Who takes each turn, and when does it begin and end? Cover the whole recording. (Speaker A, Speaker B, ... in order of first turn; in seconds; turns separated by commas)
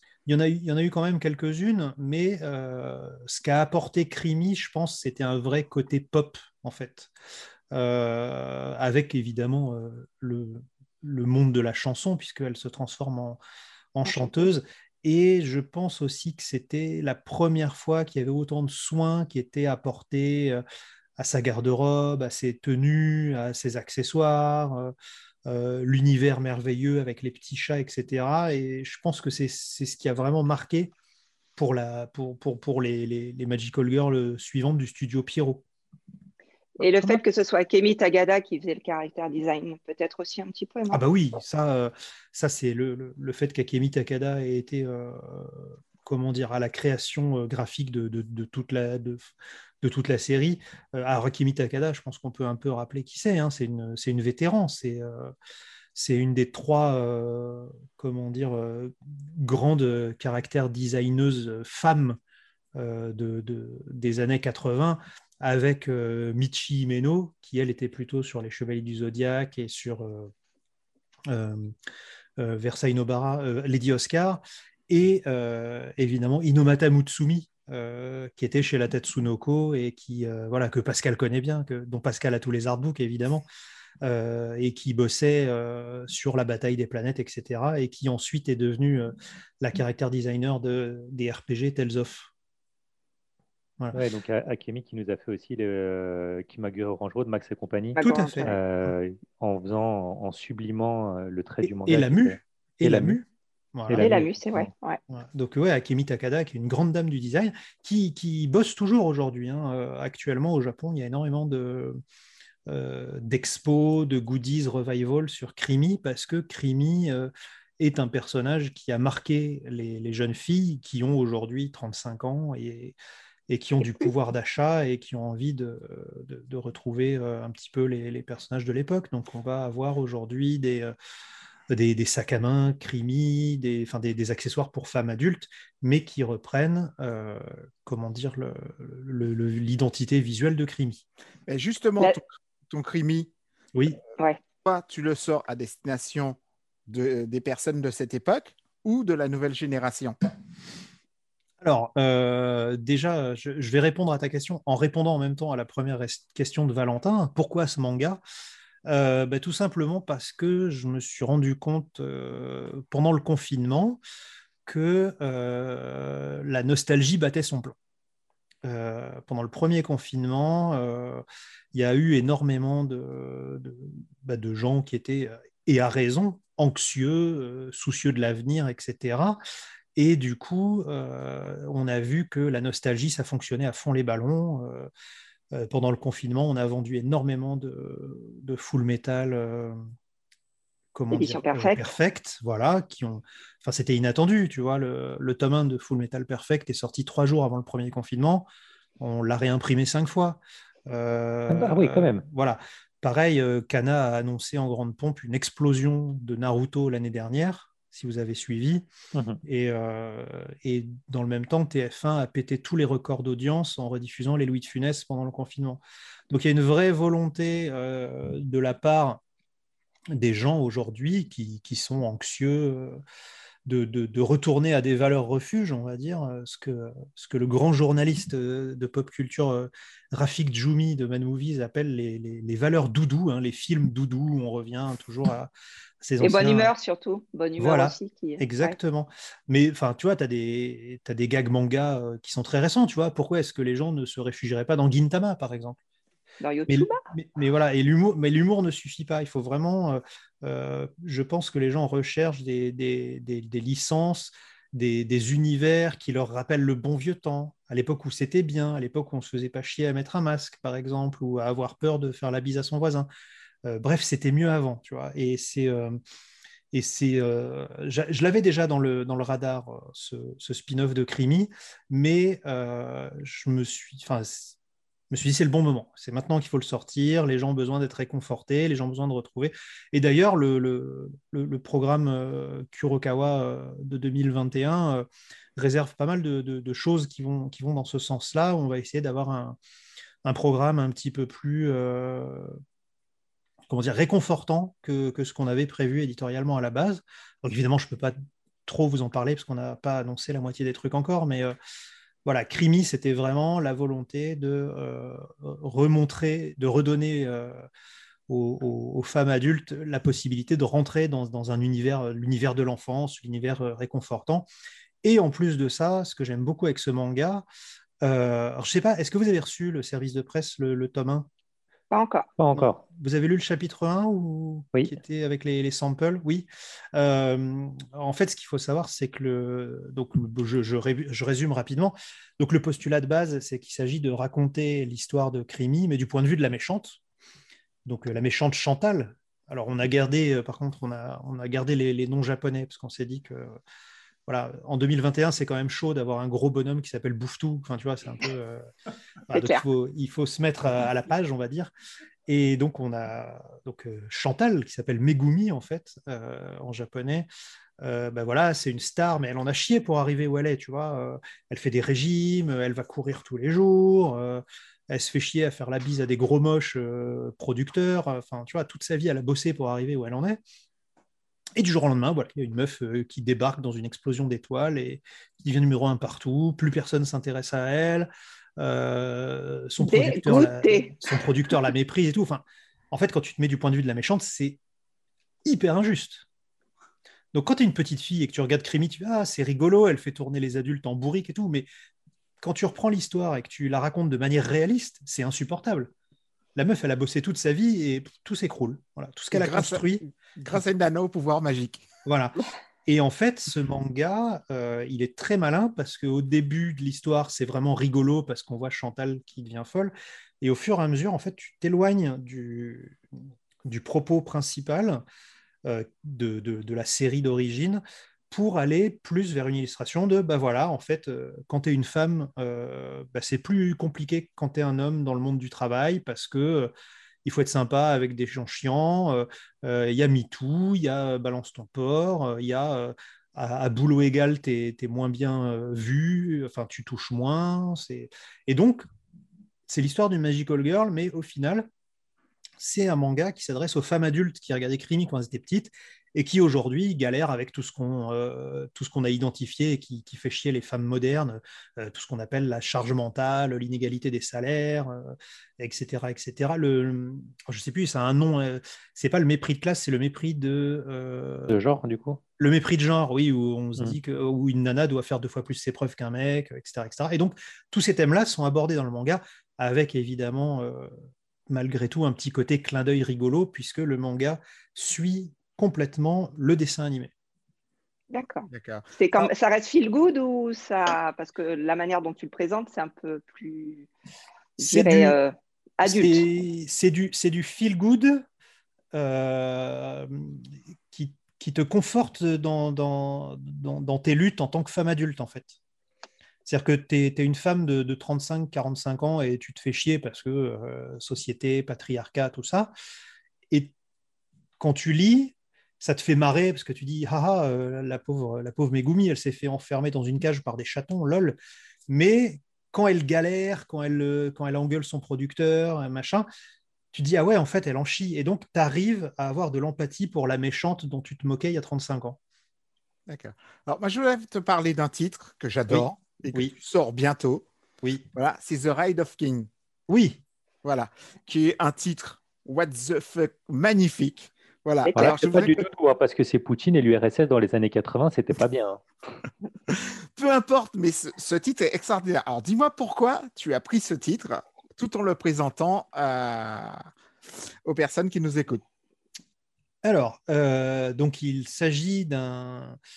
Speaker A: 0.2-7.1, Speaker A: 7.7-13.4, Speaker A: 13.9-20.6, Speaker B: 14.1-14.4, Speaker A: 21.2-24.9, Speaker A: 25.4-30.9, Speaker A: 31.6-35.6, Speaker A: 36.8-37.2, Speaker B: 36.8-41.0, Speaker A: 40.9-49.3, Speaker A: 49.8-55.3, Speaker A: 55.9-62.2, Speaker A: 62.8-70.3, Speaker A: 71.3-71.7, Speaker A: 72.4-83.4, Speaker A: 84.0-92.3, Speaker C: 93.9-103.2, Speaker B: 98.0-98.5, Speaker A: 98.0-98.9, Speaker A: 101.6-104.1, Speaker C: 103.9-104.7, Speaker B: 103.9-105.0, Speaker A: 105.1-112.0, Speaker A: 112.7-123.0, Speaker A: 123.5-130.9, Speaker A: 131.7-141.0, Speaker D: 141.5-143.3, Speaker D: 144.6-150.2, Speaker A: 151.6-158.2, Speaker A: 158.8-164.0, Speaker A: 164.7-167.8, Speaker A: 168.6-179.4, Speaker A: 179.9-184.9, Speaker A: 185.5-189.8, Speaker A: 190.9-198.5, Speaker B: 191.1-191.9, Speaker A: 199.0-208.9, Speaker C: 201.5-202.2, Speaker C: 209.1-209.4, Speaker A: 209.5-219.2, Speaker A: 220.1-223.0, Speaker A: 223.7-236.7, Speaker B: 236.2-238.7, Speaker A: 237.6-245.8, Speaker B: 246.4-247.0, Speaker A: 246.7-263.1, Speaker A: 263.6-266.0, Speaker A: 266.7-274.5, Speaker A: 275.1-289.6, Speaker A: 290.2-292.6, Speaker A: 293.7-298.1, Speaker A: 298.6-301.5, Speaker A: 302.2-307.6, Speaker A: 308.3-314.5, Speaker A: 315.0-317.4, Speaker A: 318.0-321.3, Speaker B: 321.9-322.3, Speaker C: 322.4-322.8, Speaker A: 322.5-337.0, Speaker A: 337.8-343.6, Speaker A: 344.3-348.6, Speaker A: 349.3-351.7, Speaker B: 349.3-349.6, Speaker A: 352.3-357.3, Speaker A: 357.8-370.4, Speaker A: 371.6-384.6, Speaker B: 379.8-381.1, Speaker A: 385.4-386.2, Speaker A: 387.3-391.7, Speaker A: 392.4-395.9, Speaker A: 396.5-400.6, Speaker D: 399.3-401.9, Speaker A: 402.0-413.0, Speaker A: 413.6-415.0, Speaker A: 415.6-426.7, Speaker A: 427.2-438.8, Speaker A: 439.7-441.7, Speaker A: 442.6-461.6, Speaker C: 461.5-462.2, Speaker A: 462.4-470.9, Speaker A: 471.5-477.1, Speaker B: 478.1-483.9, Speaker D: 478.5-478.9, Speaker B: 484.6-486.2, Speaker A: 484.6-485.1, Speaker A: 485.8-488.2, Speaker A: 488.9-495.6, Speaker A: 496.4-502.7, Speaker A: 504.6-516.2, Speaker A: 516.9-522.2, Speaker D: 523.1-527.5, Speaker A: 525.7-526.5, Speaker D: 528.1-529.5, Speaker A: 529.9-530.2, Speaker D: 530.6-535.6, Speaker B: 534.8-535.2, Speaker C: 534.9-538.8, Speaker D: 539.7-546.9, Speaker D: 547.6-548.6, Speaker A: 549.8-552.8